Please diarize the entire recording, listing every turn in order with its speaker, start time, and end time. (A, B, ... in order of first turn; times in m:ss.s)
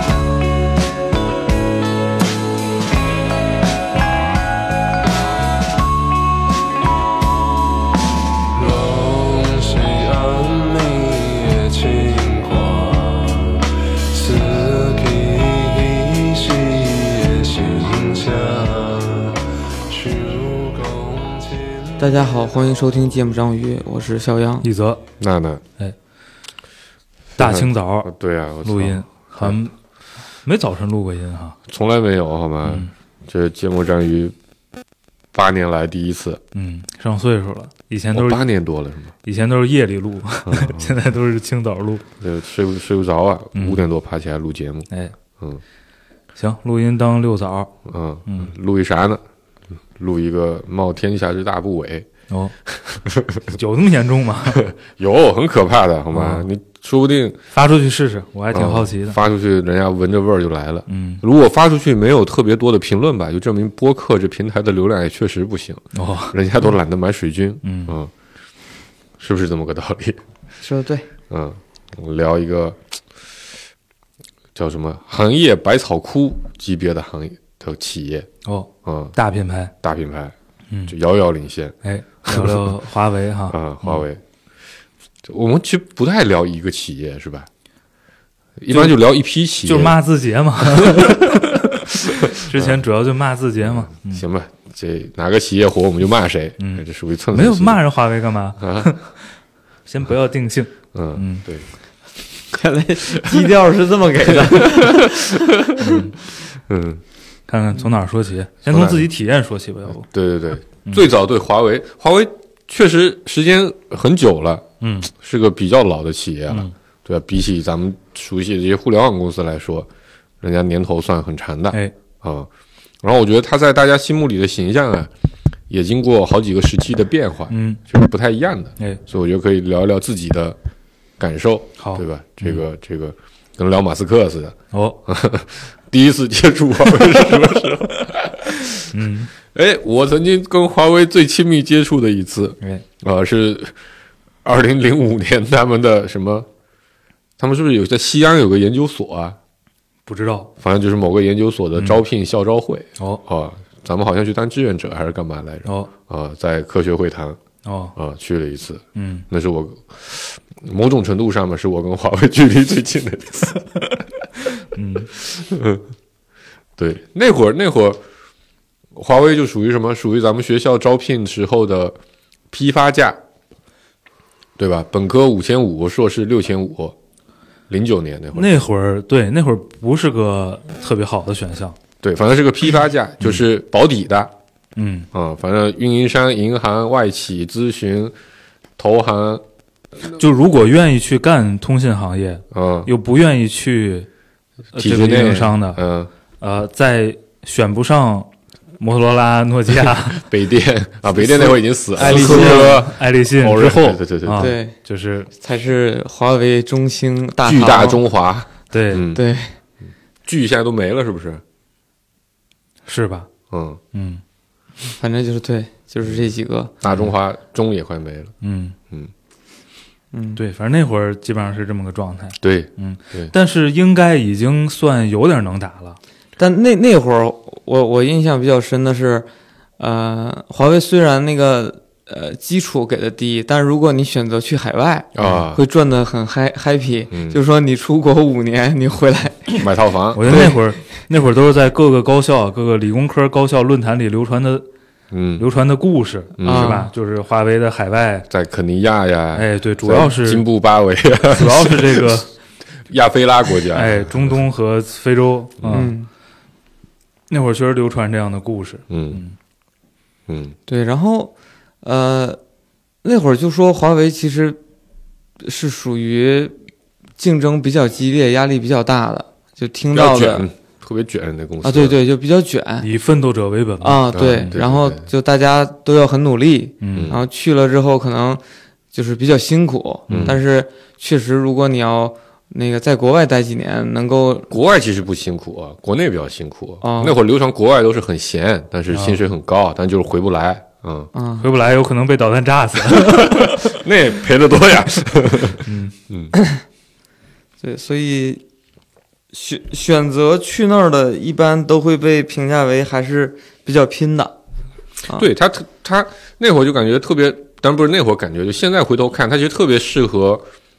0:08.5-0:22.0 A
0:22.0-0:24.7 B
0:24.6-0:25.0 C
0:25.2-0:25.6 D
0:27.4-0:29.6 D
0:27.4-0:28.1 C
0:28.6-0:29.7 C
0:30.4-0:31.6 C
0:31.7-0:34.3 D
0:35.3-0:36.4 D
0:36.5-0:38.4 C
0:38.1-0:39.1 D
0:39.2-0:42.0 C
0:40.5-0:40.9 D
0:42.2-0:44.9 D
0:43.5-0:43.8 C
0:46.3-0:47.7 C
0:47.8-0:49.2 D
0:50.0-0:52.1 D
0:52.6-0:53.6 D
0:53.5-0:54.6 C
0:54.5-0:57.4 D
0:56.1-0:56.4 C
0:57.5-0:59.2 C
0:58.5-1:08.1 D
1:00.9-1:01.2 C
1:05.9-1:06.4 C
1:07.6-1:07.9 C
1:09.2-1:10.2 D
1:10.6-1:11.1 B
1:11.3-1:12.8 D
1:14.5-1:18.3 D
1:18.4-1:19.7 C
1:18.8-1:19.1 D
1:19.8-1:20.3 D
1:20.9-1:22.7 D
1:21.8-1:24.0 C
1:23.5-1:24.2 D
1:25.2-1:27.5 D
1:28.6-1:30.0 D
1:28.7-1:29.0 C
1:29.6-1:34.2 C
1:30.6-1:31.4 D
1:32.0-1:32.9 D
1:33.6-1:37.8 D
1:36.6-1:39.1 C
1:38.6-1:38.9 D
1:39.8-1:41.4 C
1:40.9-1:41.6 D
1:42.5-1:45.4 B
1:44.2-1:46.0 D
1:45.8-1:46.1 C
1:46.5-1:47.0 D
1:47.5-1:50.0 C
1:48.7-1:49.1 D
1:50.0-1:59.9 D
1:54.8-1:55.1 C
2:00.4-2:02.5 D
2:03.0-2:05.1 D
2:05.7-2:10.6 D
2:07.5-2:07.8 C
2:11.2-2:18.9 D
2:11.8-2:12.6 C
2:14.7-2:15.0 C
2:18.9-2:19.3 C
2:19.5-2:23.7 D
2:24.4-2:26.5 D
2:27.4-2:29.4 D
2:30.1-2:30.5 C
2:30.6-2:37.4 D
2:35.6-2:35.9 C
2:37.6-2:37.9 C
2:38.0-2:43.6 D
2:39.0-2:39.2 C
2:44.8-2:45.1 C
2:45.1-2:45.8 D
2:46.8-2:48.0 D
2:48.9-2:51.9 D
2:52.5-2:53.2 D
2:54.6-2:56.9 D
2:57.7-2:58.6 D
2:58.3-3:01.8 C
3:02.0-3:04.3 D
3:04.8-3:05.0 C
3:05.1-3:08.1 D
3:08.8-3:09.4 D
3:10.1-3:14.1 C
3:12.5-3:12.9 D
3:14.7-3:15.8 C
3:14.8-3:16.1 D
3:16.4-3:20.2 C
3:20.1-3:24.5 D
3:22.0-3:22.8 B
3:22.0-3:25.3 C
3:24.4-3:24.7 B
3:25.4-3:28.0 B
3:27.4-3:29.2 D
3:28.7-3:29.1 C
3:29.1-3:29.5 B
3:30.2-3:31.4 D
3:32.8-3:33.3 C
3:33.5-3:33.8 D
3:33.9-3:34.2 C
3:35.0-3:36.7 B
3:36.8-3:38.3 D
3:38.4-3:38.8 C
3:40.1-3:40.4 B
3:40.4-3:46.0 C
3:42.4-3:43.3 D
3:46.4-3:49.3 B
3:49.8-3:59.6 B
3:55.1-3:55.6 D
3:57.1-3:57.4 D
3:59.5-4:00.5 D
4:00.1-4:04.7 C
4:00.2-4:00.6 B
4:05.1-4:05.4 D
4:05.4-4:08.3 C
4:06.4-4:06.8 D
4:06.4-4:06.9 B
4:08.3-4:12.2 D
4:09.3-4:10.4 C
4:11.3-4:12.3 C
4:12.9-4:14.4 D
4:13.7-4:15.9 C
4:15.6-4:15.9 D
4:15.7-4:16.1 B
4:17.3-4:19.3 C
4:18.9-4:19.2 D
4:20.3-4:20.6 D
4:20.7-4:22.4 B
4:23.0-4:24.6 B
4:25.4-4:26.5 B
4:27.2-4:30.5 B
4:29.9-4:32.0 D
4:31.6-4:32.9 B
4:32.8-4:34.5 C
4:33.8-4:38.4 B
4:34.1-4:35.0 D
4:36.8-4:37.1 C
4:36.9-4:37.2 D
4:38.9-4:44.5 B
4:40.1-4:40.3 C
4:40.1-4:40.4 D
4:44.5-4:51.1 D
4:46.8-4:47.2 B
4:48.9-4:49.2 C
4:51.1-4:51.5 B
4:51.4-4:53.8 C
4:52.9-4:56.3 D
4:55.6-4:55.9 C
4:56.3-4:56.6 B
4:57.6-4:58.4 B
4:59.3-5:04.3 B
5:05.1-5:10.4 D